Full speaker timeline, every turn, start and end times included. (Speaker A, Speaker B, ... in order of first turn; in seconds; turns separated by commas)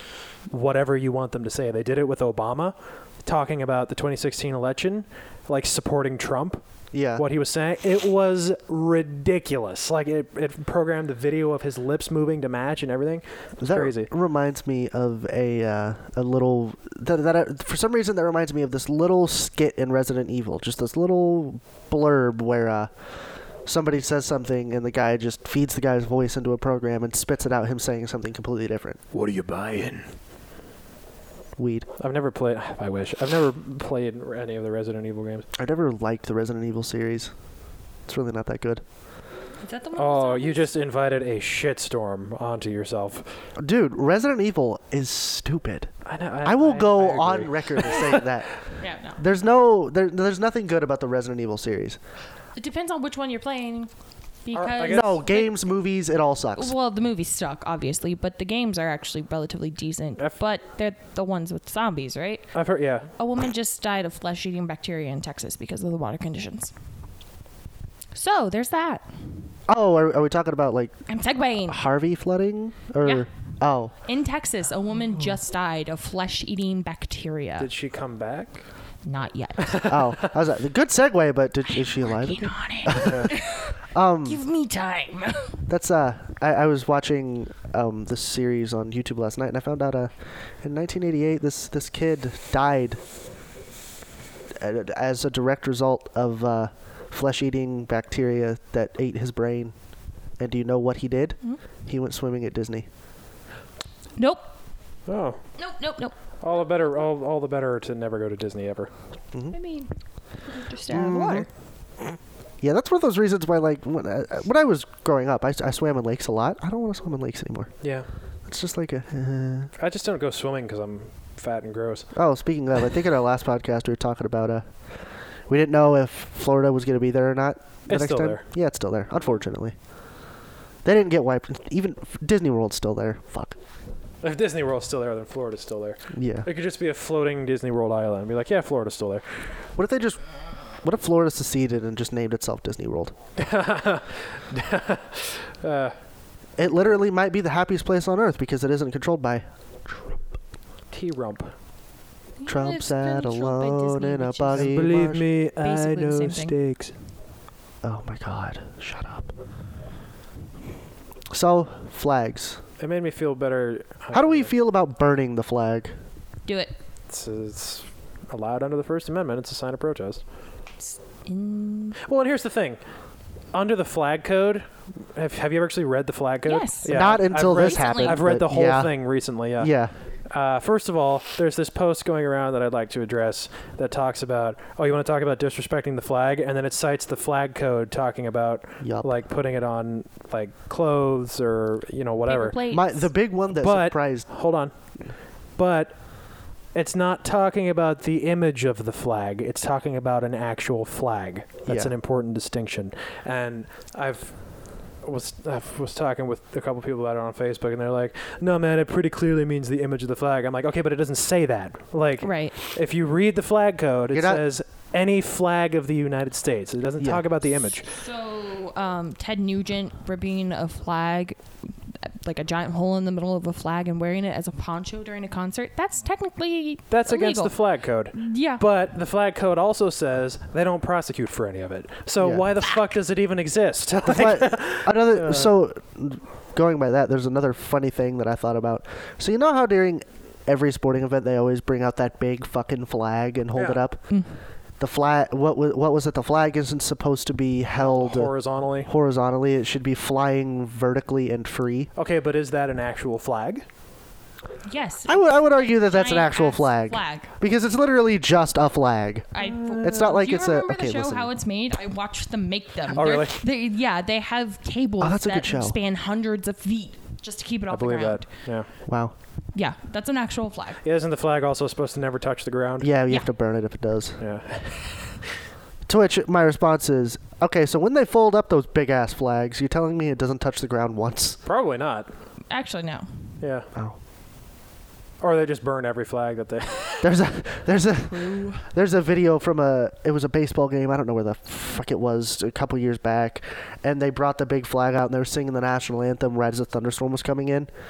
Speaker A: 0.5-6.6, Speaker B: 6.9-7.2, Speaker A: 7.2-14.1, Speaker B: 13.6-22.9, Speaker B: 23.6-29.0, Speaker A: 29.1-30.1, Speaker B: 31.6-31.9, Speaker A: 32.0-35.5, Speaker B: 35.5-37.3, Speaker B: 38.1-38.8, Speaker C: 39.6-40.7, Speaker A: 40.0-43.3, Speaker B: 43.6-45.9, Speaker A: 46.0-48.3, Speaker B: 46.4-48.5, Speaker C: 48.8-49.2, Speaker B: 49.2-52.0, Speaker C: 52.5-53.9, Speaker C: 54.4-55.5, Speaker A: 54.5-55.2, Speaker B: 54.8-56.7, Speaker C: 56.5-62.5, Speaker A: 62.5-63.1, Speaker C: 63.1-66.7, Speaker C: 68.1-69.0, Speaker B: 69.7-70.9, Speaker C: 71.1-71.8, Speaker B: 71.7-73.9, Speaker C: 74.0-77.7, Speaker A: 77.6-78.6, Speaker C: 79.0-79.9, Speaker A: 79.6-80.2, Speaker B: 79.8-83.3, Speaker C: 81.8-85.6, Speaker A: 83.0-83.3, Speaker B: 83.9-84.4, Speaker B: 85.7-93.0, Speaker B: 94.5-99.7, Speaker B: 100.4-102.9, Speaker C: 104.2-104.5, Speaker A: 105.1-105.4, Speaker C: 105.6-106.2, Speaker A: 106.4-108.9, Speaker C: 109.5-109.9, Speaker C: 110.5-111.5, Speaker B: 110.9-111.5, Speaker B: 112.6-117.7, Speaker A: 117.8-118.1, Speaker B: 118.5-119.7, Speaker A: 119.8-122.1, Speaker B: 122.1-124.7, Speaker B: 125.5-129.7, Speaker A: 127.9-128.4, Speaker B: 130.8-133.6, Speaker A: 134.2-139.2, Speaker B: 136.1-136.5, Speaker B: 139.8-140.2, Speaker B: 140.8-143.1, Speaker A: 143.4-145.9, Speaker B: 146.6-150.1, Speaker A: 150.9-151.5, Speaker C: 152.4-154.8, Speaker B: 152.4-155.2, Speaker A: 154.5-156.9, Speaker C: 155.6-156.6, Speaker B: 157.8-159.3, Speaker B: 161.3-162.6, Speaker A: 162.8-164.5, Speaker B: 164.1-165.9, Speaker C: 166.4-166.7, Speaker A: 167.1-170.2, Speaker C: 170.8-172.0, Speaker A: 172.0-172.8, Speaker A: 173.5-179.7, Speaker C: 176.4-178.2, Speaker B: 176.8-178.9, Speaker B: 179.6-179.9, Speaker A: 180.3-192.6, Speaker B: 188.8-189.1, Speaker C: 192.3-193.1, Speaker B: 192.7-194.3, Speaker A: 193.5-194.7, Speaker A: 195.6-196.1, Speaker A: 196.7-204.4, Speaker B: 201.7-201.9, Speaker A: 205.0-217.9, Speaker C: 212.2-212.6, Speaker B: 214.1-214.4, Speaker C: 217.9-221.4, Speaker C: 222.0-227.6, Speaker A: 226.9-235.5, Speaker C: 228.1-228.6, Speaker B: 232.2-232.4, Speaker B: 234.0-244.1, Speaker A: 243.5-243.8, Speaker B: 244.8-248.3, Speaker A: 247.7-248.9, Speaker B: 248.8-251.9, Speaker A: 251.9-253.6, Speaker C: 254.7-257.3, Speaker B: 255.1-261.3, Speaker C: 259.3-268.2, Speaker A: 259.4-260.0, Speaker A: 262.9-263.4, Speaker B: 265.0-265.8, Speaker A: 267.7-268.7, Speaker B: 268.9-269.1, Speaker C: 269.5-270.8, Speaker A: 270.8-272.9, Speaker B: 272.8-274.2, Speaker A: 274.2-274.9, Speaker B: 275.9-281.4, Speaker A: 281.4-282.1, Speaker C: 282.5-283.1, Speaker A: 283.4-283.7, Speaker A: 285.2-287.1, Speaker B: 287.0-297.7, Speaker C: 288.1-288.6